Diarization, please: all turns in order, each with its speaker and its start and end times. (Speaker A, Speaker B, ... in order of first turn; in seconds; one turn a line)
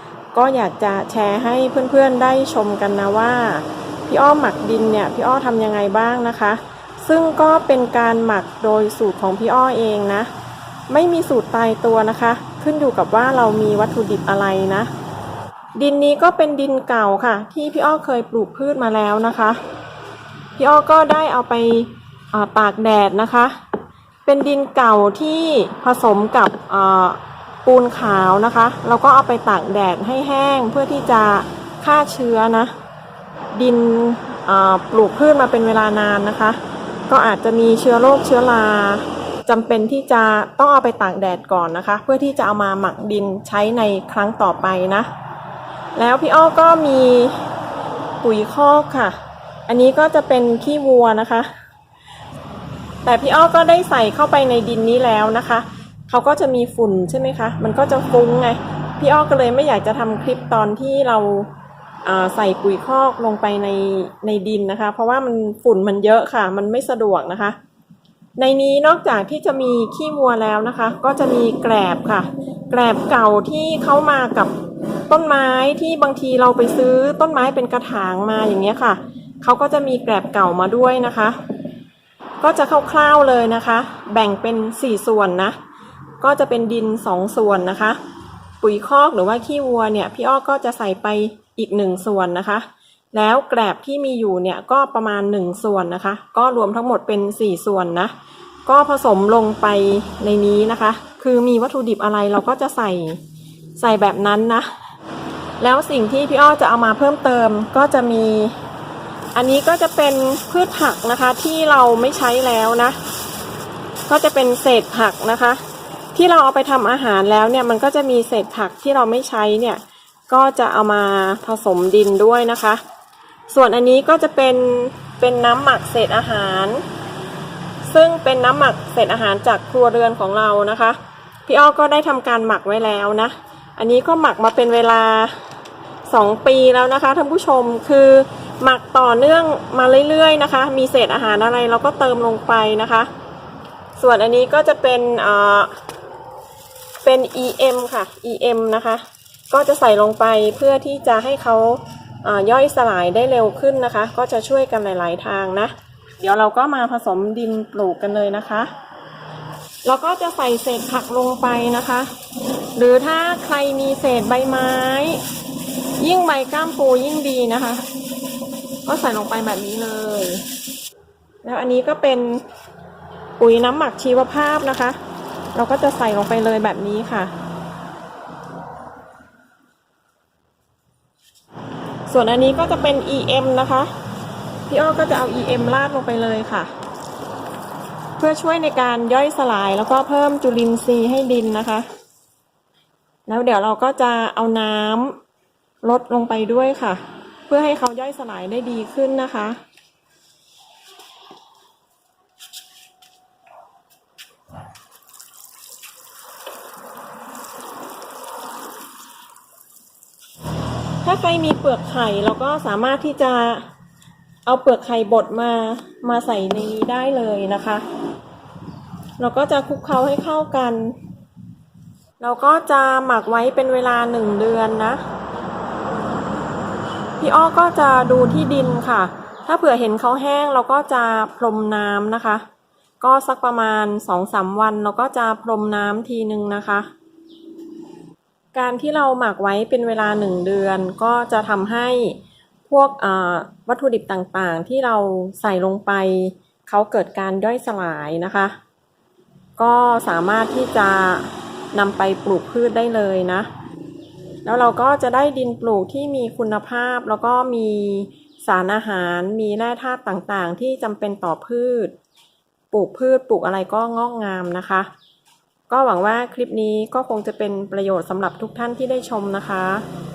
Speaker A: 0.3-10.3
Speaker A: 10.9-14.9
Speaker A: 15.7-19.6
Speaker A: 20.6-23.6
Speaker A: 24.2-32.7
Speaker A: 33.5-45.1
Speaker A: 46.0-47.5
Speaker A: 48.2-51.5
Speaker A: 53.0-61.5
Speaker A: 62.0-67.6
Speaker A: 68.4-74.5
Speaker A: 75.1-81.4
Speaker A: 82.4-85.6
Speaker A: 86.2-88.0
Speaker A: 88.6-98.1
Speaker A: 98.7-103.2
Speaker A: 103.8-104.7
Speaker A: 105.6-108.6
Speaker A: 109.3-113.0
Speaker A: 114.1-115.6
Speaker A: 116.1-122.8
Speaker A: 123.5-126.8
Speaker A: 127.9-135.4
Speaker A: 136.1-143.1
Speaker A: 144.0-145.7
Speaker A: 147.0-158.7
Speaker A: 159.8-162.1
Speaker A: 162.8-165.2
Speaker A: 166.0-167.8
Speaker A: 168.8-170.4
Speaker A: 171.4-172.4
Speaker A: 173.4-175.0
Speaker A: 175.5-177.3
Speaker A: 182.1-183.9
Speaker A: 184.7-186.7
Speaker A: 188.2-191.9
Speaker A: 193.3-195.2
Speaker A: 195.8-199.6
Speaker A: 211.0-213.7
Speaker A: 214.5-217.8
Speaker A: 219.2-221.0
Speaker A: 222.2-225.0
Speaker A: 227.2-232.4
Speaker A: 233.0-236.9
Speaker A: 238.5-248.6
Speaker A: 249.6-253.5
Speaker A: 254.4-261.9
Speaker A: 262.7-264.9
Speaker A: 265.7-269.8